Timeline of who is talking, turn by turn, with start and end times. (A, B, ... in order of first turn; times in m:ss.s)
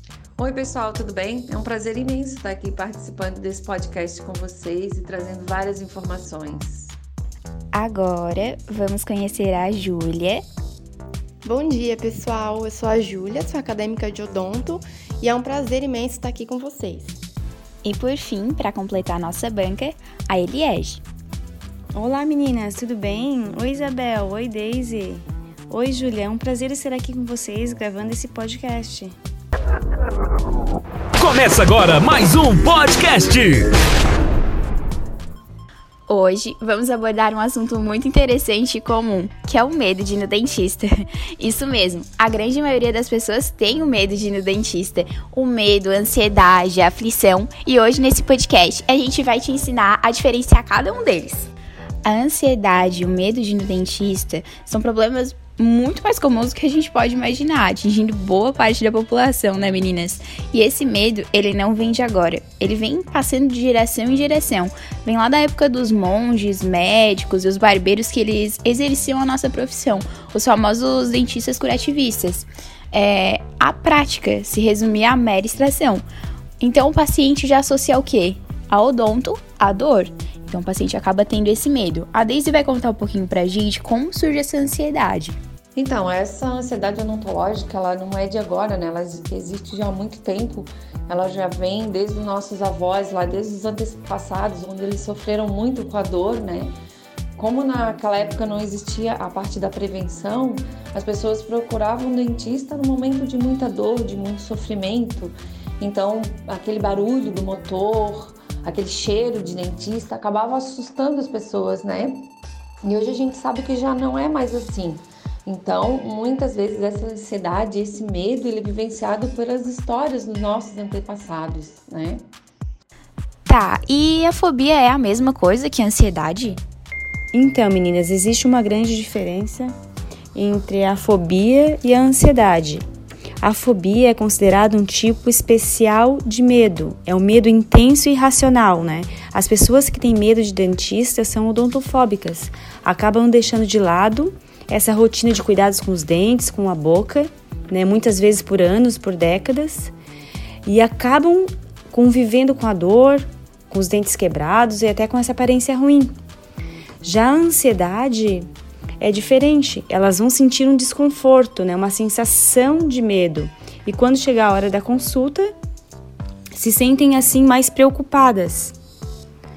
0:00.4-0:06.9 A
0:07.7-0:10.4 B
0:11.4-0:17.2 C
0:17.8-0:21.0 B
0:21.9-0:29.1 D
0:31.2-0:33.7 E
0:36.1-0:51.5 B
0:52.0-1:16.0 B
1:16.6-1:25.4 B
1:25.8-1:36.7 A
1:37.4-1:52.3 A
1:52.8-2:02.2 A
2:03.5-2:06.6 B
2:07.3-2:09.7 D
2:10.3-2:12.8 D
2:13.4-2:29.9 D
2:30.6-2:36.1 D
2:37.0-2:38.5 D
2:39.0-2:45.5 D
2:46.5-2:48.7 D